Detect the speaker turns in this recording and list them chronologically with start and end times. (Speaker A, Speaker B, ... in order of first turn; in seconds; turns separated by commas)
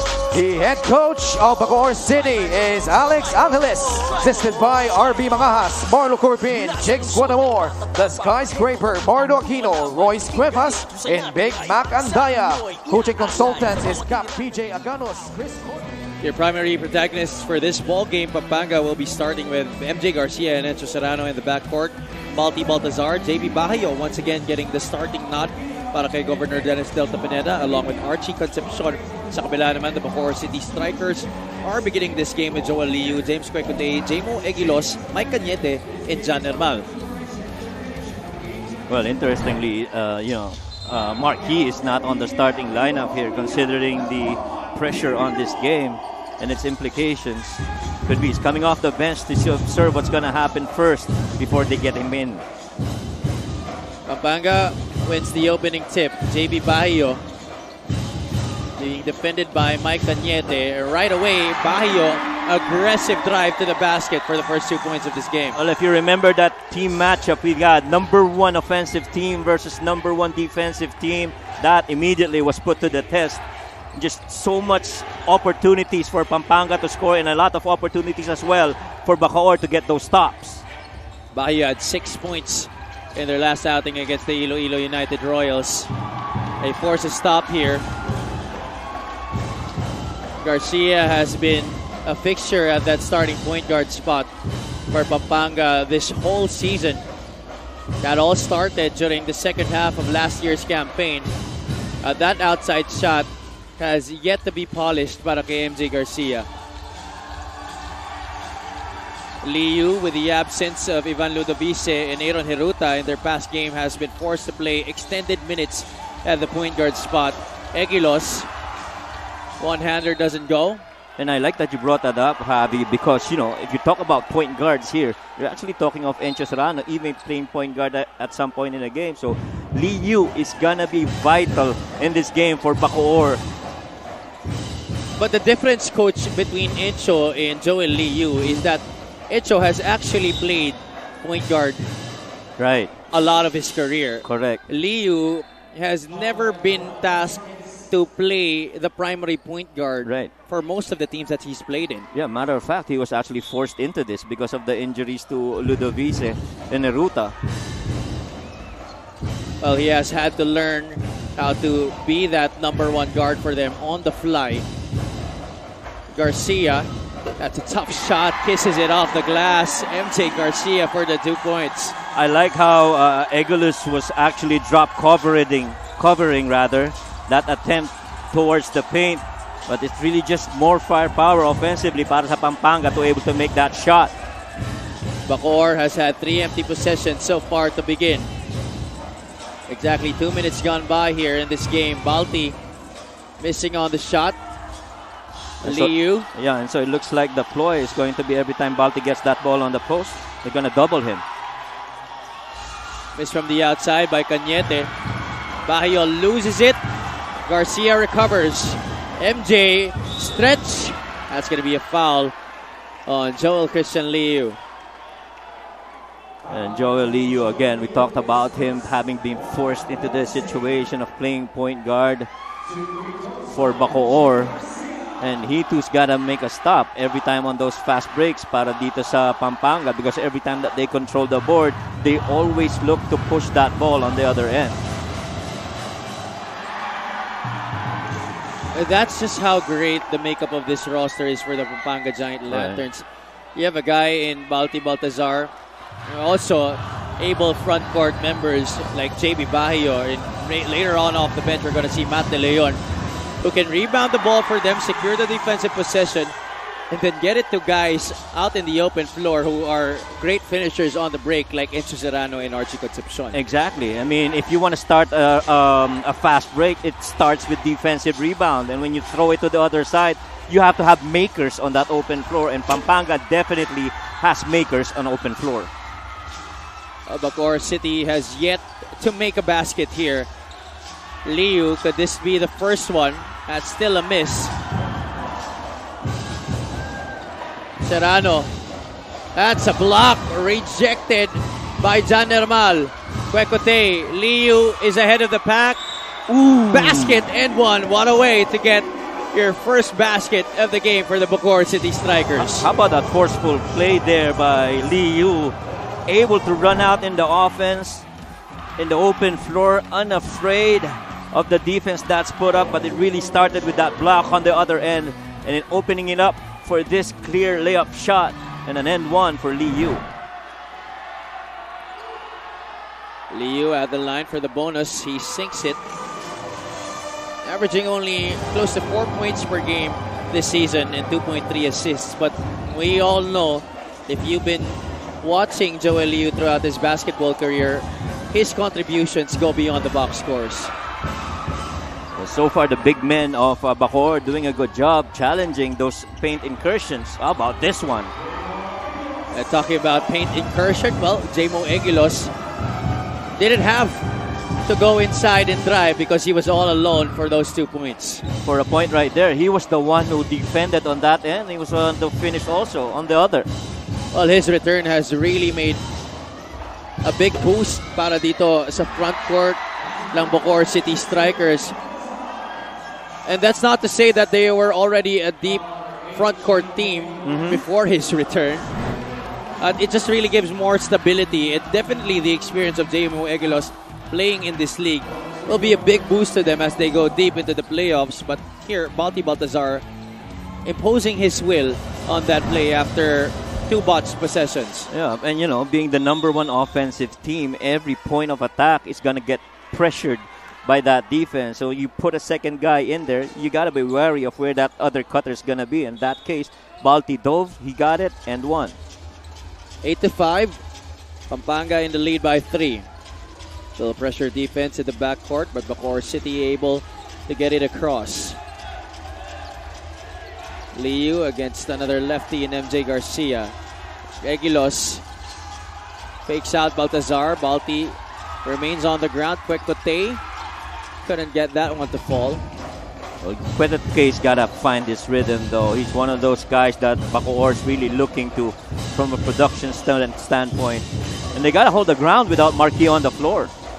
Speaker A: 0.3-15.9, Speaker B: 16.2-36.9, Speaker C: 38.9-52.4, Speaker B: 54.1-57.2, Speaker B: 58.8-65.6, Speaker C: 65.5-73.4, Speaker C: 74.0-80.7, Speaker B: 81.3-85.9, Speaker B: 86.6-87.9, Speaker B: 90.4-94.3, Speaker B: 94.9-97.0, Speaker B: 98.0-101.3, Speaker B: 102.0-106.5, Speaker B: 109.4-118.5, Speaker B: 119.6-120.8, Speaker C: 121.2-133.4, Speaker B: 135.2-141.9, Speaker C: 142.6-142.9, Speaker B: 143.1-152.1, Speaker C: 144.2-144.6, Speaker C: 150.0-150.3, Speaker C: 152.1-157.3, Speaker B: 159.6-164.7, Speaker B: 166.1-171.9, Speaker C: 172.1-184.1, Speaker B: 185.3-188.3, Speaker B: 189.7-192.6, Speaker B: 193.4-194.4, Speaker B: 195.6-196.3, Speaker C: 195.6-201.2, Speaker B: 203.2-204.9, Speaker B: 205.7-206.8, Speaker B: 207.5-212.3, Speaker B: 213.1-214.6, Speaker C: 216.5-222.3, Speaker C: 223.5-224.6, Speaker C: 225.2-234.8, Speaker B: 238.7-245.5, Speaker C: 242.5-242.8, Speaker B: 246.1-252.8, Speaker B: 253.4-256.3, Speaker B: 256.9-263.4, Speaker C: 263.3-275.7, Speaker B: 277.1-280.3, Speaker B: 281.2-284.5, Speaker B: 287.8-288.5, Speaker B: 289.4-295.8, Speaker C: 296.3-297.2, Speaker B: 296.7-302.7, Speaker C: 302.4-305.6, Speaker C: 306.1-308.1, Speaker C: 308.8-320.0, Speaker B: 323.3-325.8, Speaker B: 327.4-340.7, Speaker C: 342.2-348.1, Speaker B: 349.3-352.3, Speaker B: 353.4-354.1, Speaker B: 354.6-358.2, Speaker C: 358.4-363.5, Speaker B: 364.1-365.8, Speaker B: 367.0-369.6, Speaker B: 370.1-371.8, Speaker B: 373.2-378.6, Speaker C: 377.2-377.6, Speaker B: 379.6-389.8, Speaker B: 390.6-394.9, Speaker C: 394.9-408.8, Speaker B: 409.8-410.6, Speaker B: 411.3-412.9, Speaker B: 413.8-418.4, Speaker B: 420.7-423.6, Speaker B: 424.2-425.0, Speaker B: 426.3-430.2, Speaker B: 431.1-432.4, Speaker C: 433.2-443.5